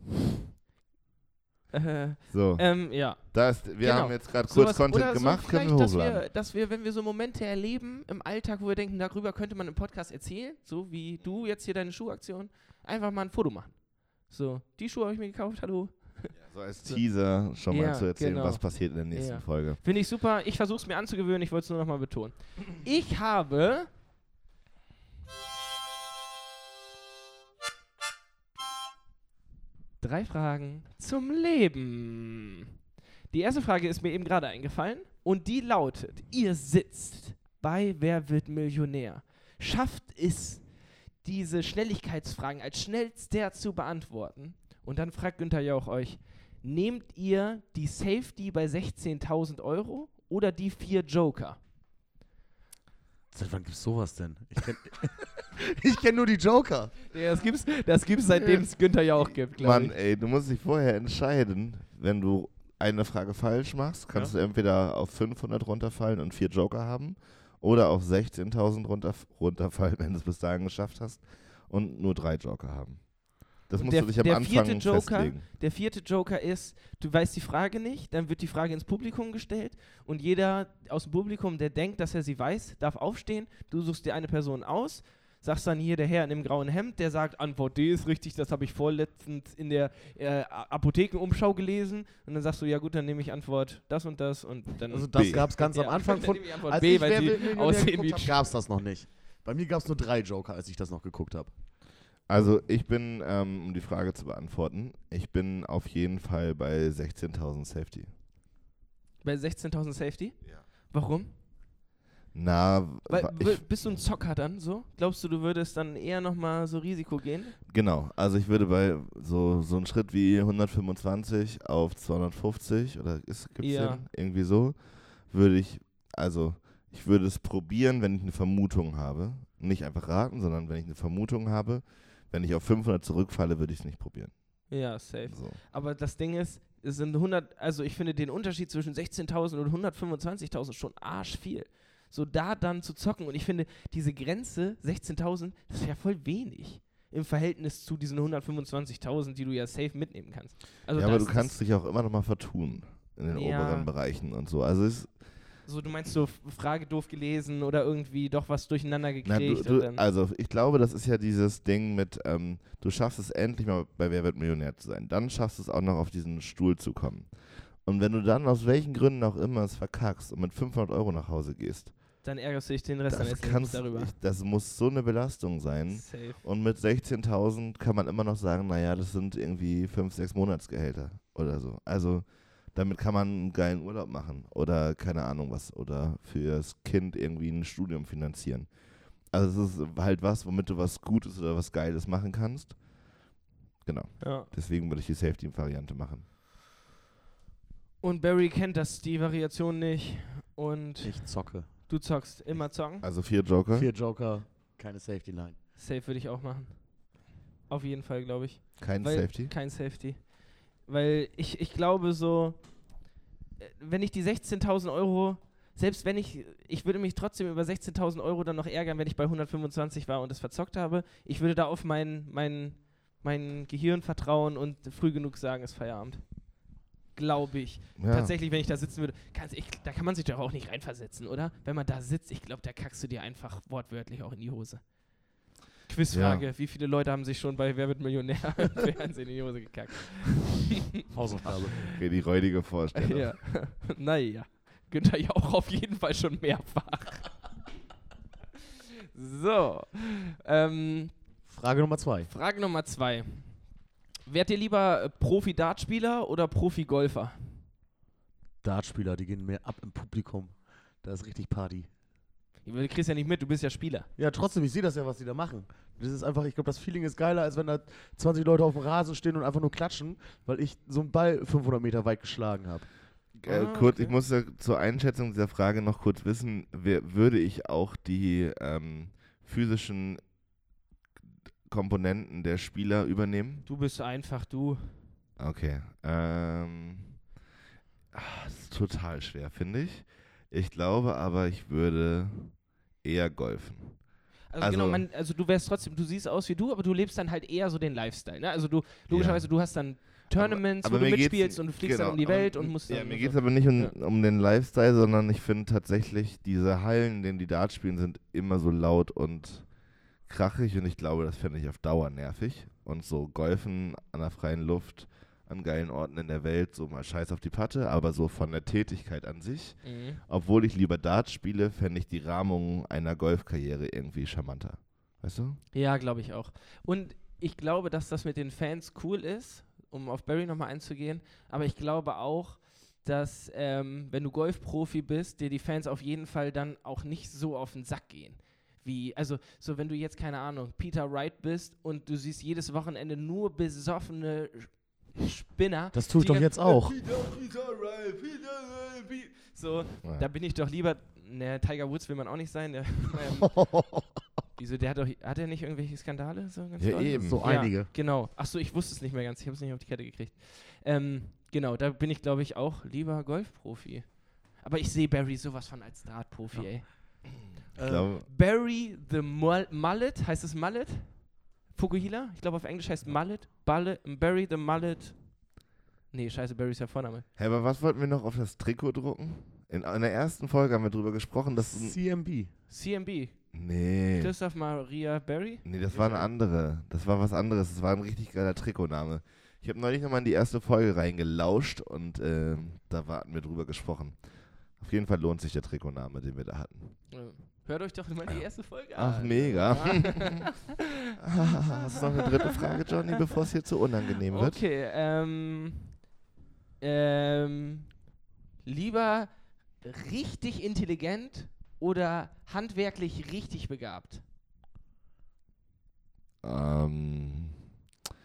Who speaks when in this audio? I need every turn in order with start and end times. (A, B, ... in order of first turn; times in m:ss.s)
0:01.7-0:23.9 A
0:02.3-0:06.2 B
0:16.3-0:19.8 B
0:30.0-0:32.6 A
0:33.3-0:51.6 A
0:53.3-0:57.1 C
0:57.1-0:59.9 A
0:58.3-1:15.4 B
1:13.7-1:38.4 A
1:34.9-1:41.6 C
1:35.1-1:35.5 B
1:42.3-1:48.1 B
1:49.2-1:51.3 A
1:52.3-1:53.9 B
1:53.1-1:57.6 A
1:57.7-2:15.6 B
2:03.6-2:04.0 A
2:14.7-2:31.6 A
2:30.9-2:35.2 B
2:33.3-2:33.9 A
2:35.6-2:40.0 A
2:39.2-2:47.3 B
2:47.8-2:51.9 B
2:52.2-2:54.1 A
2:53.1-3:08.7 B
2:55.9-2:56.4 A
3:09.2-3:12.8 B
3:13.8-3:16.2 B
3:14.2-3:14.5 A
3:18.0-3:23.0 A
3:21.0-3:21.9 C
3:23.0-3:23.9 B
3:23.7-3:25.6 C
3:25.8-3:55.0 A
3:28.8-3:29.5 B
3:48.0-3:48.3 B
3:55.8-4:00.7 A
3:56.1-3:56.4 B
4:01.1-4:01.9 C
4:01.9-4:03.4 B
4:02.9-4:07.4 A
4:09.1-4:11.2 A
4:11.4-4:12.3 C
4:12.3-4:17.6 A
4:18.6-4:21.9 C
4:22.6-4:24.1 A
4:24.2-4:32.9 C
4:33.4-4:40.3 B
4:33.4-4:34.2 A
4:41.7-4:43.6 B
4:43.6-4:45.0 A
4:45.4-4:47.2 B
4:48.1-4:55.0 B
4:54.5-5:03.9 A
4:59.1-5:09.7 B
5:10.2-5:25.6 B
5:19.8-5:20.2 A
5:25.7-5:53.7 A
5:45.9-5:47.0 C
5:50.0-5:50.3 B
5:53.5-5:54.0 C
5:54.6-6:07.2 A
5:56.8-5:57.6 B
5:57.1-5:57.9 C
6:07.8-6:08.1 C
6:07.8-6:08.3 B
6:08.2-6:15.4 A
6:16.1-6:17.2 A
6:17.4-6:22.0 B
6:21.6-6:22.5 C
6:22.7-6:23.4 A
6:23.5-6:24.3 B
6:24.1-6:26.2 A
6:25.6-6:34.2 B
6:34.8-6:37.0 B
6:37.1-6:40.7 A
6:38.9-6:40.4 B
6:41.2-6:44.6 B
6:41.6-6:42.0 A
6:44.3-6:46.0 A
6:46.8-6:48.0 A
6:48.6-6:54.2 A
6:56.4-6:57.6 B